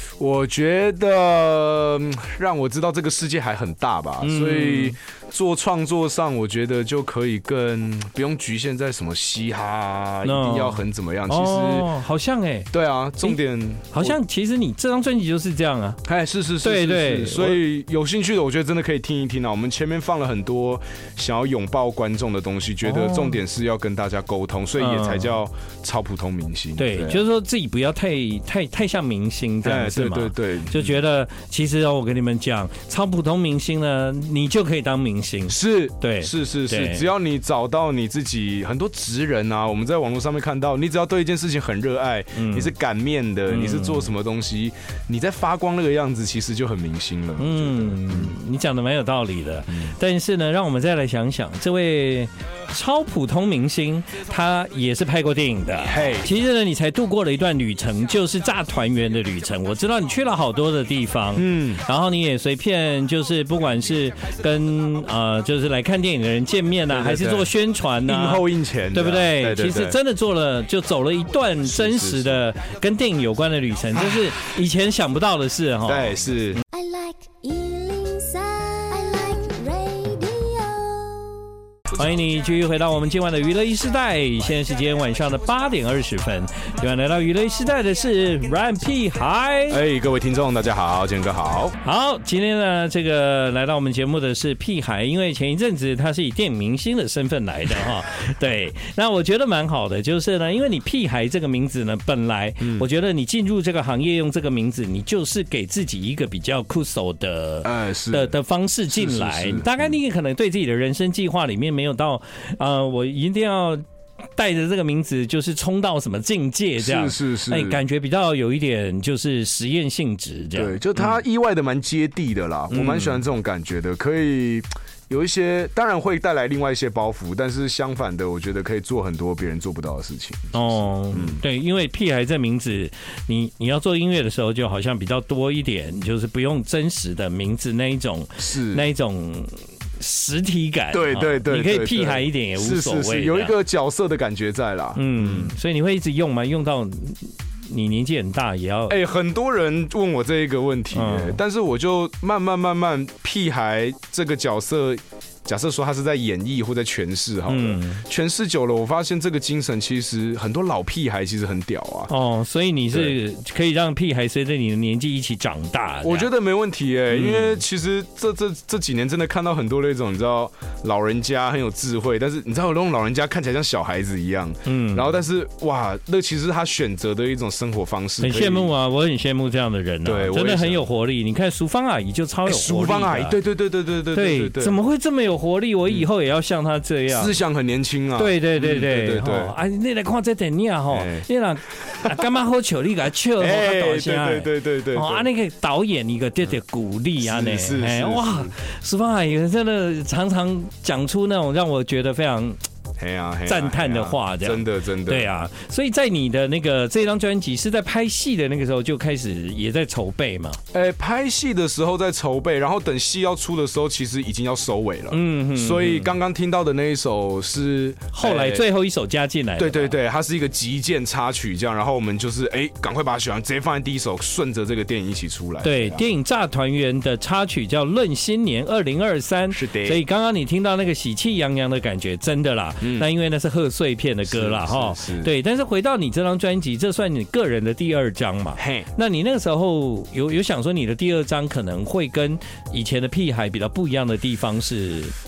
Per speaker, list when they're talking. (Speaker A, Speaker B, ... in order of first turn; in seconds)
Speaker A: 0.2-11.9, 12.7-14.2, 16.1-27.2, 29.6-31.0, 35.5-48.3, 49.7-50.0, 55.8-56.3, 61.4-61.8, 66.9-67.5, 68.0-70.0, 71.7-72.4, 74.0-74.3, 75.9-76.6, 89.7-91.8, 102.6-102.9, 107.6-108.4, 108.9-109.9, 116.8-117.8, 120.5-131.4, 138.4-138.9, 140.9-145.6, 148.9-162.1, 162.9-163.2, 166.0-178.7, 180.1-180.9, 182.5-184.8, 187.1-189.6, 190.9-191.3, 193.4-195.3, 197.2-198.5, 203.0-205.3, 210.7-218.7, 219.6-226.1, 229.5-230.0, 232.8-233.1, 234.3-235.3, 238.6-238.9
Speaker B: 4.2-5.0, 10.2-12.7, 13.9-16.0, 16.6-17.6, 22.8-23.4, 24.8-25.4, 26.8-37.1, 42.4-42.7, 43.5-44.1, 47.4-76.2, 81.9-89.8, 91.8-113.8, 114.4-121.2, 122.7-123.2, 130.5-143.6, 145.0-149.0, 150.9-151.4, 157.5-158.0, 162.1-166.3, 167.1-167.6, 174.7-175.1, 178.2-183.4, 184.1-187.3, 188.2-202.6, 203.5-210.6, 215.1-216.1, 218.1-220.0, 225.6-245.2
Speaker C: 76.7-81.5